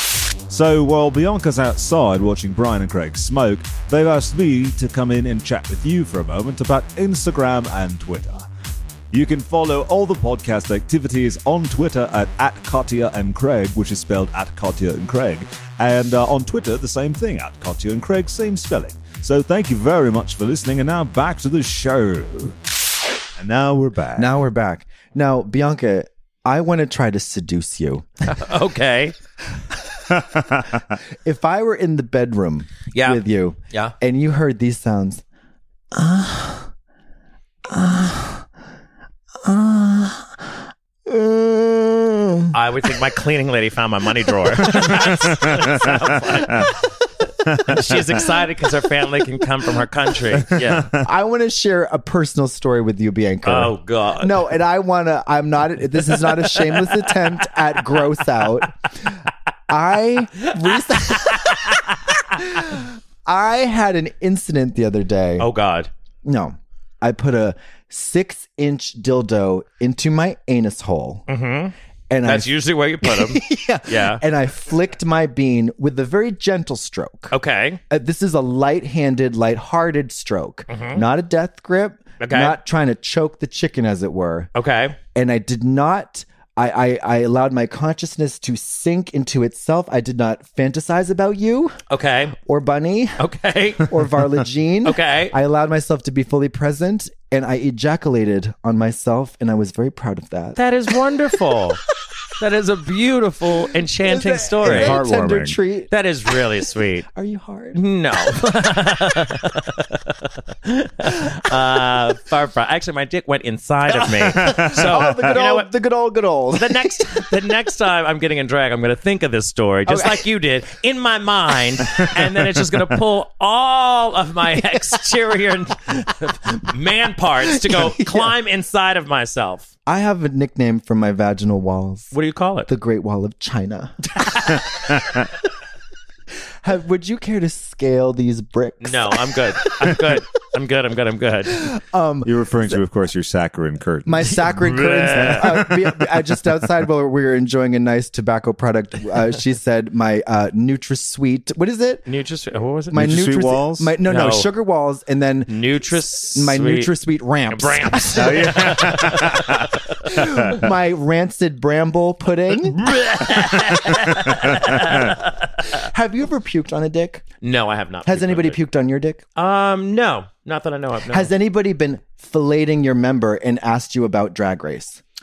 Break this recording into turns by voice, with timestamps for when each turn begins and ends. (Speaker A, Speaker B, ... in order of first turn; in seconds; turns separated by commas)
Speaker A: 0.5-8.4, Speaker A: 9.1-22.6, Speaker A: 23.4-24.3, Speaker B: 24.1-28.1, Speaker C: 28.2-29.1, Speaker B: 29.9-30.4, Speaker B: 31.2-35.2, Speaker C: 32.9-33.9, Speaker B: 35.9-36.7, Speaker B: 37.7-38.4, Speaker B: 39.4-40.5, Speaker B: 41.0-42.5, Speaker C: 42.5-46.8, Speaker A: 44.8-45.9, Speaker A: 47.5-48.0, Speaker C: 47.6-50.9, Speaker A: 50.5-51.0, Speaker B: 50.9-59.2, Speaker C: 53.4-54.4, Speaker C: 56.4-57.1, Speaker B: 59.7-61.8, Speaker C: 60.5-62.1, Speaker B: 62.3-65.5, Speaker C: 65.4-65.9, Speaker B: 66.2-71.3, Speaker C: 71.3-74.2, Speaker B: 72.1-77.3, Speaker C: 77.3-77.8, Speaker B: 77.9-84.5, Speaker C: 80.7-81.0, Speaker C: 82.2-82.6, Speaker C: 84.5-85.0, Speaker B: 85.1-91.8, Speaker C: 91.9-92.3, Speaker B: 92.4-93.2, Speaker C: 93.2-93.9, Speaker B: 93.8-100.6, Speaker C: 94.8-95.3, Speaker C: 100.5-101.8, Speaker C: 102.4-105.0, Speaker B: 104.0-105.9, Speaker A: 104.6-105.6, Speaker C: 105.9-107.0, Speaker B: 107.1-107.8, Speaker C: 107.7-115.7, Speaker B: 114.2-117.5, Speaker A: 114.4-115.1, Speaker C: 116.5-129.7, Speaker B: 119.9-120.3, Speaker B: 127.5-128.3, Speaker B: 129.8-132.1, Speaker C: 132.1-132.7, Speaker B: 132.7-134.9, Speaker C: 134.2-134.6, Speaker B: 136.6-140.2, Speaker C: 138.8-141.7, Speaker B: 141.5-142.8, Speaker A: 142.2-146.2, Speaker B: 144.1-152.1, Speaker C: 144.5-145.6, Speaker C: 152.1-153.1, Speaker B: 152.9-159.4, Speaker A: 152.9-153.9, Speaker C: 154.1-154.5, Speaker C: 155.5-156.9, Speaker C: 157.5-160.1, Speaker A: 158.1-160.6, Speaker B: 160.0-162.8, Speaker C: 162.7-165.7, Speaker B: 165.7-167.2, Speaker C: 167.4-168.6, Speaker B: 168.1-169.2, Speaker C: 169.3-171.3, Speaker B: 171.1-175.0